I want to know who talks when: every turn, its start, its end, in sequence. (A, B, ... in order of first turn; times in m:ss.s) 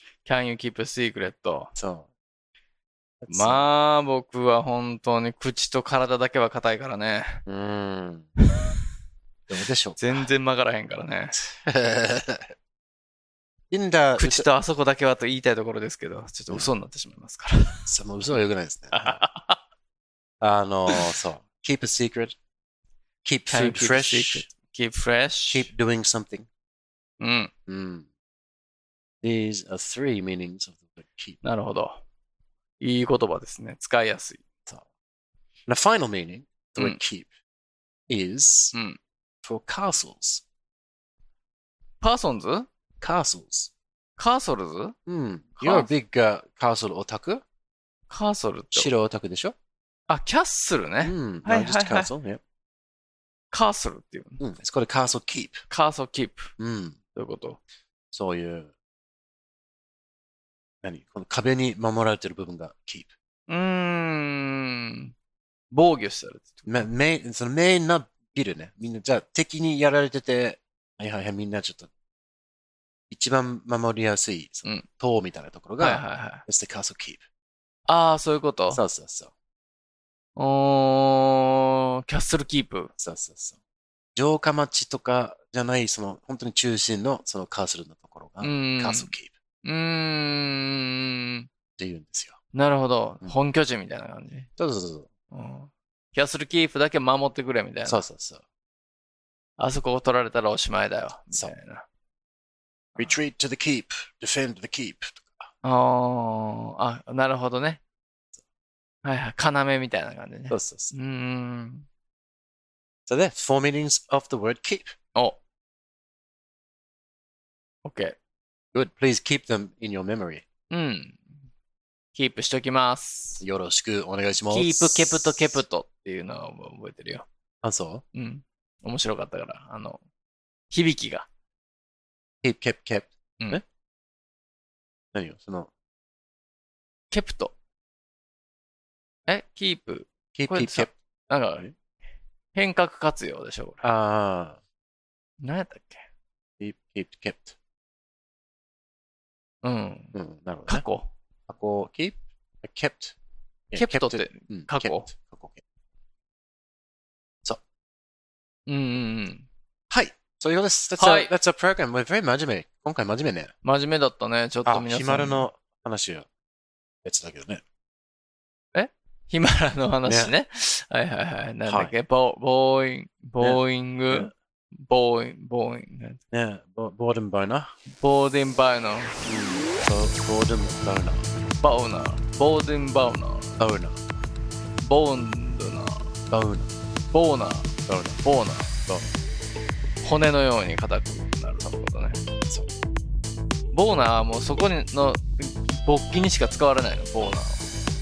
0:00.2-0:01.7 A
0:01.7-0:02.1 B
0:03.2-0:03.6 B
0:03.3-0:07.4 A
0:07.5-0:08.3 B
0:09.5-0:10.1 B
0:10.0-0:11.4 A
0:11.4-0:12.5 B
0:13.7-0:14.5 B
0:14.2-0:17.9 A
0:17.8-0:19.2 B
0:18.9-0:19.6 A
0:20.4-0:22.4 B
0:20.9-0:21.2 A
0:23.2-0:24.5 B
0:23.5-0:25.7 A
0:25.5-0:26.5 B
0:27.2-0:27.5 A
0:27.7-0:28.1 B
0:29.2-0:31.4 B
0:31.4-0:32.0 A
0:32.8-0:34.4 A
0:35.7-0:37.3 B
0:38.1-0:38.7 B
0:39.4-0:40.4 B
0:42.0-0:42.7 A
0:43.0-0:43.7 B
0:44.2-0:45.0 A
0:45.1-0:47.4 B
0:45.6-0:45.9 A
0:48.1-0:48.9 A
0:48.7-0:49.5 B
0:50.1-0:52.1 A
0:51.0-0:52.4 B
0:53.5-0:54.4 A
0:54.4-0:55.6 B
0:55.7-0:56.5 A
0:56.6-0:57.0 B
0:57.1-0:57.6 A
0:58.1-0:58.7 B
1:00.8-1:03.1 B
1:03.5-1:05.1 A
1:05.7-1:06.9 A
1:06.7-1:11.9 B
1:13.1-1:17.2 B
1:15.8-1:16.4 A
1:17.9-1:18.8 A
1:18.7-1:19.3 B
1:20.4-1:22.9 A
1:23.0-1:23.6 B
1:24.1-1:29.3 B
1:28.4-1:29.1 A
1:29.6-1:31.5 A
1:31.8-1:32.4 B
1:32.5-1:34.5 A
1:34.6-1:35.1 B
1:35.3-1:38.0 A
1:37.8-1:38.4 B
1:39.6-1:41.8 A
1:43.0-1:45.5 B
1:45.6-1:47.8 A
1:49.0-1:51.8 A
1:50.5-1:50.9 B
1:53.1-1:54.9 B
1:57.8-1:58.2 A
1:58.7-2:00.4 B
2:00.7-2:01.2 A
2:02.1-2:03.4 A
2:03.4-2:05.6 B
2:04.5-2:07.2 A
2:07.6-2:08.0 B
2:08.1-2:10.0 A
2:10.7-2:11.3 A
2:12.4-2:13.6 B
2:15.1-2:15.7 B
2:17.1-2:17.5 A
2:19.3-2:21.7 A
2:20.3-2:20.9 B
2:22.5-2:23.8 A
2:23.8-2:24.6 B
2:25.4-2:26.0 A
2:26.6-2:27.5 B
2:29.6-2:30.1 A
2:30.1-2:30.8 B
2:30.7-2:31.1 A
2:31.5-2:33.1 B
2:33.7-2:35.6 B
2:33.7-2:35.1 A
2:38.7-2:39.4 A
2:39.9-2:43.5 B
2:41.0-2:41.3 A
2:43.6-2:45.4 A
2:44.6-2:46.3 B
2:47.0-2:47.6 B
2:48.7-2:56.2 A
2:50.0-2:50.3 B
2:51.7-2:51.9 B
2:53.4-2:54.3 B
2:56.3-2:57.7 B
2:58.0-2:59.2 A
2:59.2-3:01.3 B
3:01.6-3:03.6 A
3:03.6-3:04.0 B
3:04.8-3:06.1 A
3:06.3-3:06.7 B
3:07.1-3:08.8 A
3:07.9-3:08.2 B
3:10.0-3:12.2 A
3:13.7-3:17.6 A